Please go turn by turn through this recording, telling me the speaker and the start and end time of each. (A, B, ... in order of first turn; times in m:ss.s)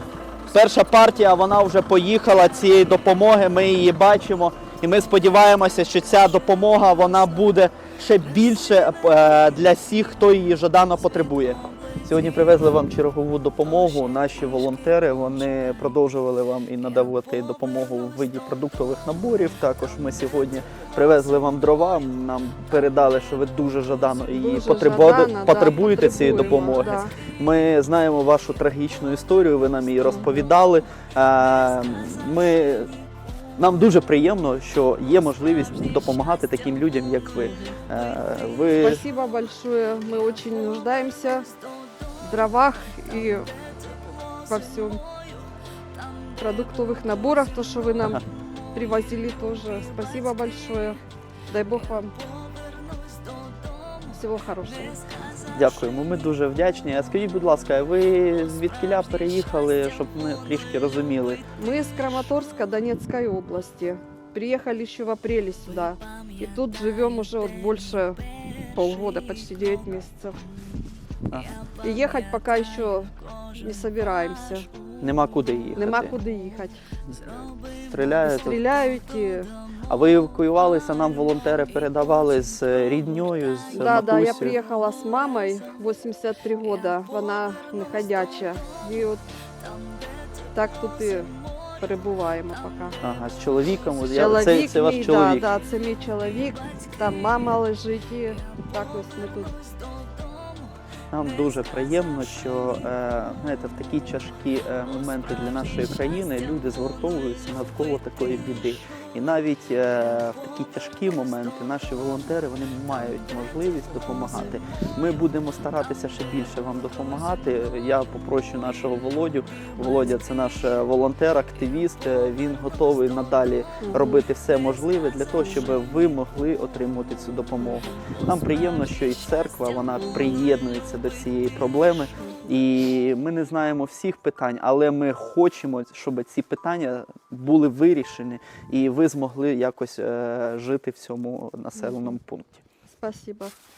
0:00.5-0:32.9 A
0:24.3-0:27.1 B
0:30.0-0:30.4 B
0:33.6-0:39.0 A
0:37.4-0:37.8 B
0:38.8-0:41.5 B
0:42.2-0:43.5 B
0:44.5-0:45.0 B
0:46.4-0:48.2 B
0:48.7-0:51.0 B
0:51.5-0:52.1 B
0:54.1-0:55.0 B
0:55.6-1:01.4 A
1:01.6-1:08.2 B
1:08.7-1:10.4 B
1:11.8-1:14.7 B
1:15.0-1:16.2 A
1:15.8-1:16.8 B
1:17.9-1:18.6 A
1:18.2-1:19.5 B
1:19.9-1:24.6 A
1:23.8-1:29.2 B
1:30.5-1:33.0 B
1:33.0-1:35.5 A
1:34.1-1:39.6 B
1:41.1-2:22.6 A
2:03.8-2:04.2 B
2:05.4-2:05.8 B
2:07.6-2:08.0 B
2:10.0-2:10.4 B
2:12.2-2:12.5 B
2:22.9-2:23.6 B